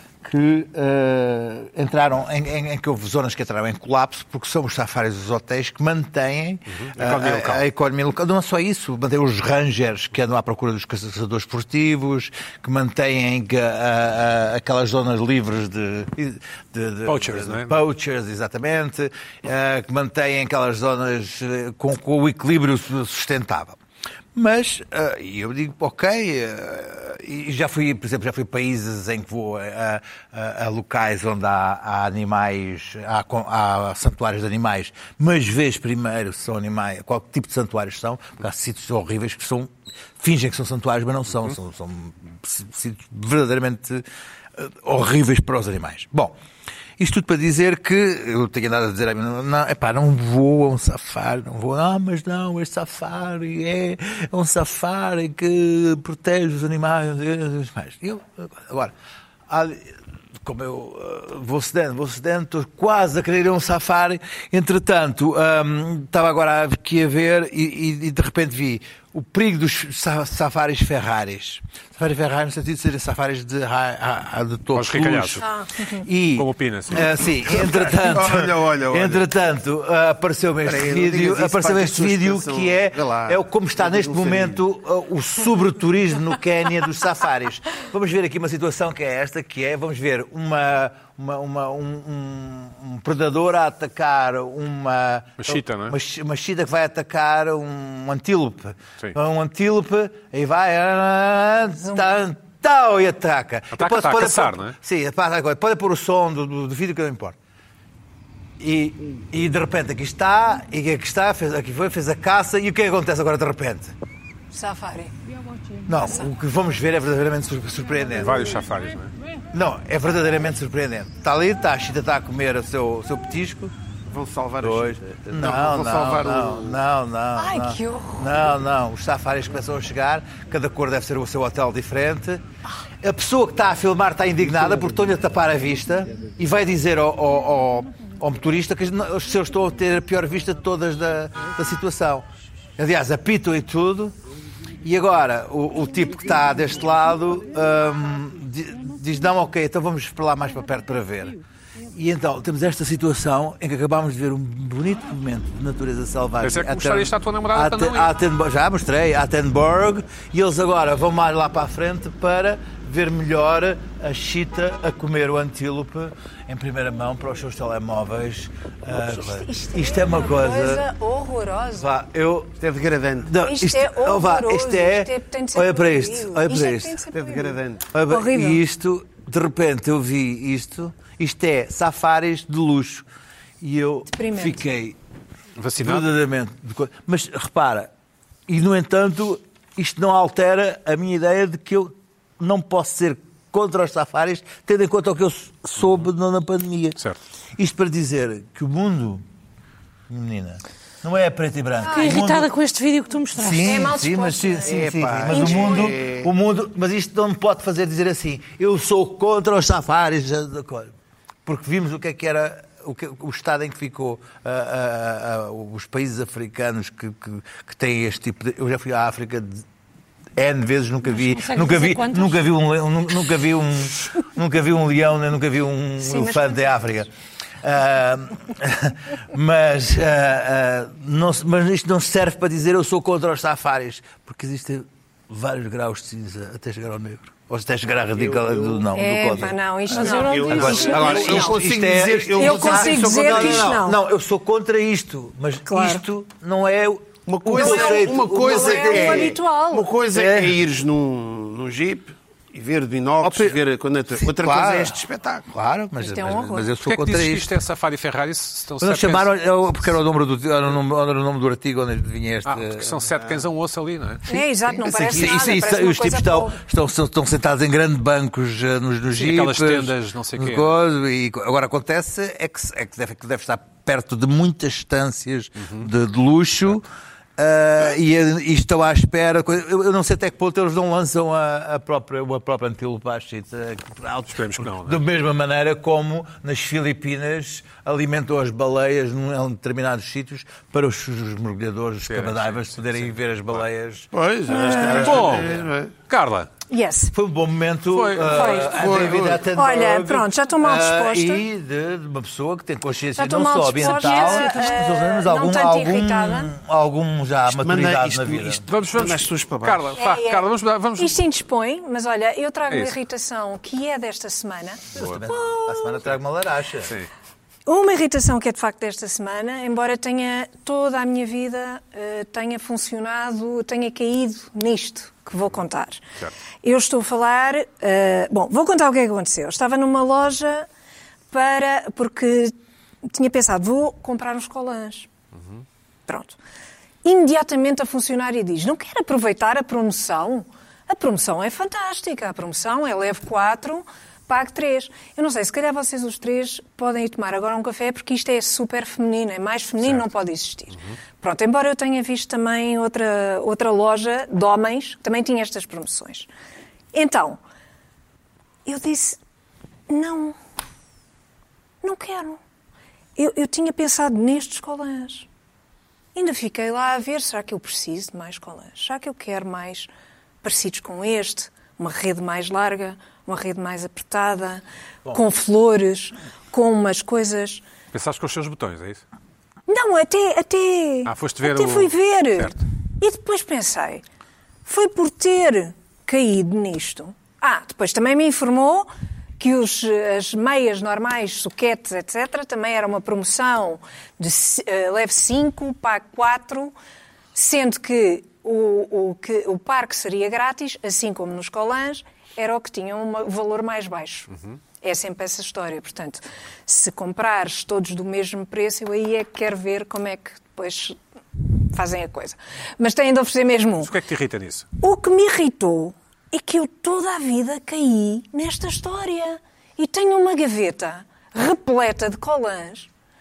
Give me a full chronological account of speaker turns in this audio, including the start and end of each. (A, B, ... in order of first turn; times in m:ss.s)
0:00.2-0:23.8 A
0:06.7-0:07.6 B
0:17.1-0:17.8 B
0:24.4-0:44.0 A
0:44.6-0:46.4 A
0:47.0-0:58.9 A
0:59.5-1:47.4 A
1:14.7-1:15.5 B
1:15.4-1:16.0 C
1:16.4-1:17.1 B
1:17.5-1:19.2 D
1:20.6-1:24.6 D
1:35.4-1:36.0 B
1:43.8-1:44.8 B
1:48.6-1:54.0 A
1:54.5-1:55.1 C
1:55.9-1:58.5 A
1:58.2-1:59.1 B
1:59.5-2:03.7 A
2:04.1-2:06.8 D
2:04.6-2:12.4 A
2:07.4-2:08.3 C
2:13.0-2:22.3 A
2:22.8-2:24.2 A
2:24.8-2:31.4 A
2:31.9-2:50.8 A
2:36.4-2:38.1 B
2:49.0-2:51.9 C
2:51.8-2:52.6 A
2:52.6-2:53.4 D
2:53.2-2:57.0 A
2:53.4-2:57.6 C
2:57.1-2:57.9 D
2:57.9-3:03.1 A
2:58.1-2:58.6 C
3:03.6-3:05.0 A
3:04.1-3:04.6 C
3:05.6-3:06.1 B
3:05.8-3:07.9 A
3:08.5-3:17.0 A
3:17.6-3:19.2 A
3:20.1-3:22.5 A
3:21.8-3:22.2 C
3:21.9-3:23.9 E
3:23.4-3:30.9 A
3:23.6-3:26.0 C
3:24.7-3:26.3 D
3:31.4-3:39.6 A
3:40.4-3:47.1 A
3:41.1-3:42.4 E
3:46.0-3:46.7 C
3:47.6-4:09.4 A
3:58.2-4:03.8 D
3:58.9-4:01.6 C
3:59.9-4:01.2 E
4:02.4-4:04.0 C
4:05.7-4:06.0 C
4:07.3-4:15.5 D
4:07.5-4:09.9 C
4:10.1-4:10.6 A
4:13.2-4:13.6 A
4:14.2-4:17.5 A
4:16.0-4:16.7 C
4:16.8-4:19.3 B
4:18.8-4:23.1 A
4:22.5-4:24.3 B
4:24.3-4:26.6 C
4:24.3-4:36.8 A
4:25.0-4:25.3 D
4:29.1-4:30.7 B
4:35.6-4:35.9 B
4:37.4-4:55.7 A
4:44.3-4:45.0 B
4:52.1-4:53.6 B
4:54.1-4:55.9 D
4:54.5-4:55.0 C
4:54.8-4:55.5 B
4:56.1-4:56.5 B
4:56.7-4:57.1 C
4:57.1-5:08.6 A
4:57.9-4:58.6 B
4:58.3-4:58.7 C
4:58.4-4:59.5 D
4:59.5-5:01.4 C
5:03.2-5:06.5 C
5:07.5-5:10.0 D
5:08.7-5:11.2 B
5:10.0-5:15.9 C
5:12.7-5:13.0 B
5:15.0-5:15.2 B
5:15.0-5:17.0 A
5:17.7-5:26.0 C
5:26.6-5:30.7 C
5:31.3-5:32.5 C
5:33.0-5:35.1 C
5:36.1-5:36.4 C
5:37.0-5:56.3 C
5:56.9-5:57.4 C
5:58.6-5:59.2 C
5:59.9-6:00.4 C
6:01.8-6:02.4 C
6:03.2-6:05.3 C
6:06.2-6:09.9 C
6:10.4-6:17.6 C
6:17.9-6:19.0 B
6:19.7-6:24.0 C
6:21.1-6:22.6 B
6:24.6-6:36.8 C
6:37.4-6:53.9 C
6:53.8-6:54.7 B
6:54.8-7:02.9 C